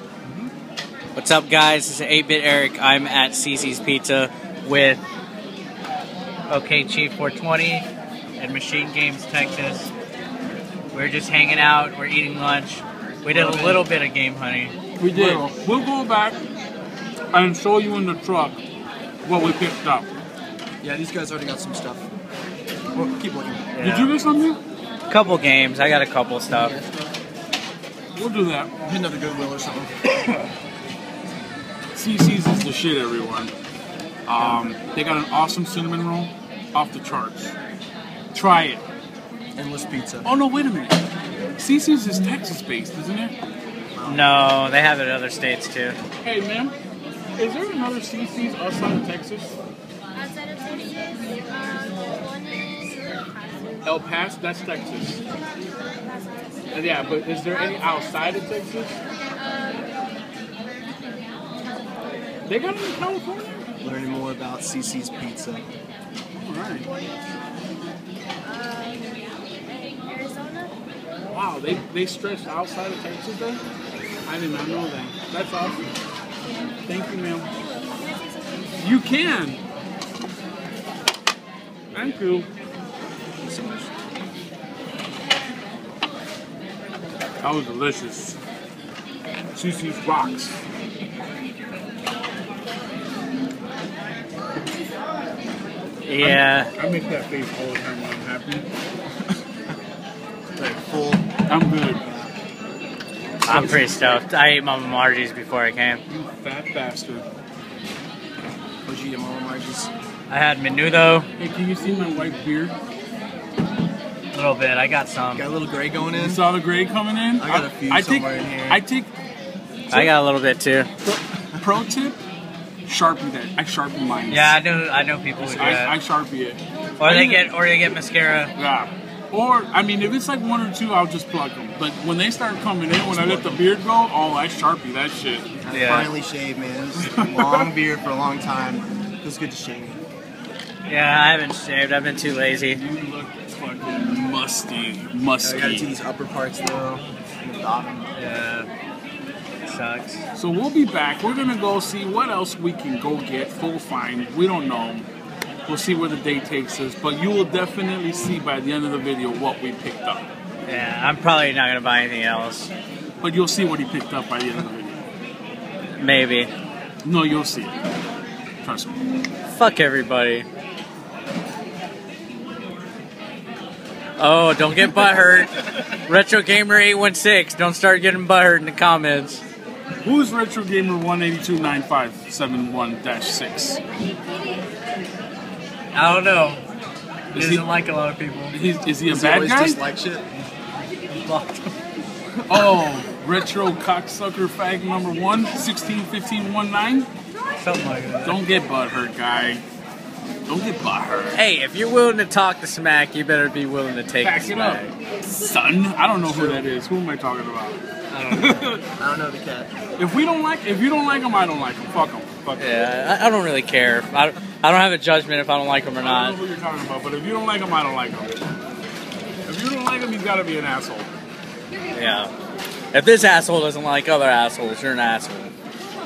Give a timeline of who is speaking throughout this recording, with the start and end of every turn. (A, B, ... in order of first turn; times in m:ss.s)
0:01.2-0:05.0 A
0:06.5-0:07.9 A
0:08.4-0:09.9 A
0:10.9-0:14.7 A
0:13.3-0:13.8 B
0:15.0-0:16.4 B
0:15.1-0:15.5 C
0:17.3-0:18.6 B
0:19.2-0:20.1 B
0:20.8-0:22.0 C
0:22.9-0:23.7 C
0:23.7-0:24.1 A
0:23.8-0:24.6 B
0:25.1-0:26.8 A
0:26.5-0:27.1 C
0:28.2-0:28.7 B
0:28.8-0:30.0 C
0:30.1-0:30.5 B
0:32.0-0:33.5 B
0:34.3-0:37.5 B
0:38.3-0:38.8 B
0:39.6-0:40.3 C
0:40.2-0:41.0 B
0:41.6-0:43.3 B
0:43.9-0:44.4 C
0:44.0-0:46.0 A
0:46.2-0:46.7 B
0:47.4-0:49.5 B
0:50.3-0:53.6 D
0:53.8-0:55.2 B
0:56.7-0:59.0 B
1:02.4-1:03.6 B
1:03.8-1:05.7 C
1:06.3-1:06.9 B
1:08.4-1:09.2 D
1:10.0-1:10.7 D
1:11.3-1:13.6 B
1:14.2-1:15.9 B
1:16.8-1:17.5 B
1:18.8-1:19.6 B
1:21.9-1:22.5 B
1:23.4-1:23.9 C
1:27.4-1:28.4 B
1:29.5-1:30.6 B
1:36.1-1:36.7 A
1:36.2-1:38.7 B
1:40.5-1:41.2 C
1:41.5-1:42.0 B
1:43.4-1:46.0 A
1:43.5-1:43.9 B
1:46.1-1:47.2 B
1:48.9-1:49.9 C
1:50.3-1:51.3 A
1:51.4-1:52.8 B
1:51.9-1:52.4 C
1:54.3-1:55.4 A
1:55.3-1:56.4 C
1:56.1-1:59.1 B
1:57.4-1:58.8 C
1:59.9-2:00.9 A
2:01.1-2:02.2 B
2:02.9-2:04.6 B
2:04.3-2:05.9 A
2:05.4-2:07.5 B
2:07.0-2:08.5 A
2:08.6-2:15.5 B
2:13.0-2:13.6 C
2:15.6-2:20.0 C
2:15.7-2:16.1 A
2:17.0-2:17.7 B
2:20.9-2:22.8 A
2:22.7-2:26.0 B
2:25.4-2:28.1 C
2:28.2-2:28.7 A
2:29.7-2:30.2 A
2:30.3-2:35.1 B
2:35.7-2:40.3 B
2:40.7-2:42.7 A
2:43.2-2:45.0 B
2:46.0-2:46.5 A
2:47.0-2:47.8 B
2:48.6-2:49.0 B
2:49.5-2:50.4 A
2:54.2-2:59.4 A
3:00.0-3:03.8 B
3:05.9-3:06.6 A
3:07.3-3:07.7 B
3:07.3-3:08.6 A
3:08.5-3:09.8 B
3:09.1-3:10.2 C
3:11.1-3:11.7 A
3:12.5-3:17.1 B
3:17.6-3:18.4 A
3:18.2-3:19.6 B
3:20.5-3:21.4 B
3:21.3-3:24.9 A
3:24.2-3:28.8 B
3:26.2-3:26.6 C
3:28.1-3:28.6 A
3:29.0-3:29.7 C
3:30.0-3:32.6 B
3:32.6-3:36.4 A
3:36.0-3:38.4 B
3:39.4-3:41.1 B
3:41.9-3:42.3 A
3:42.9-3:45.5 A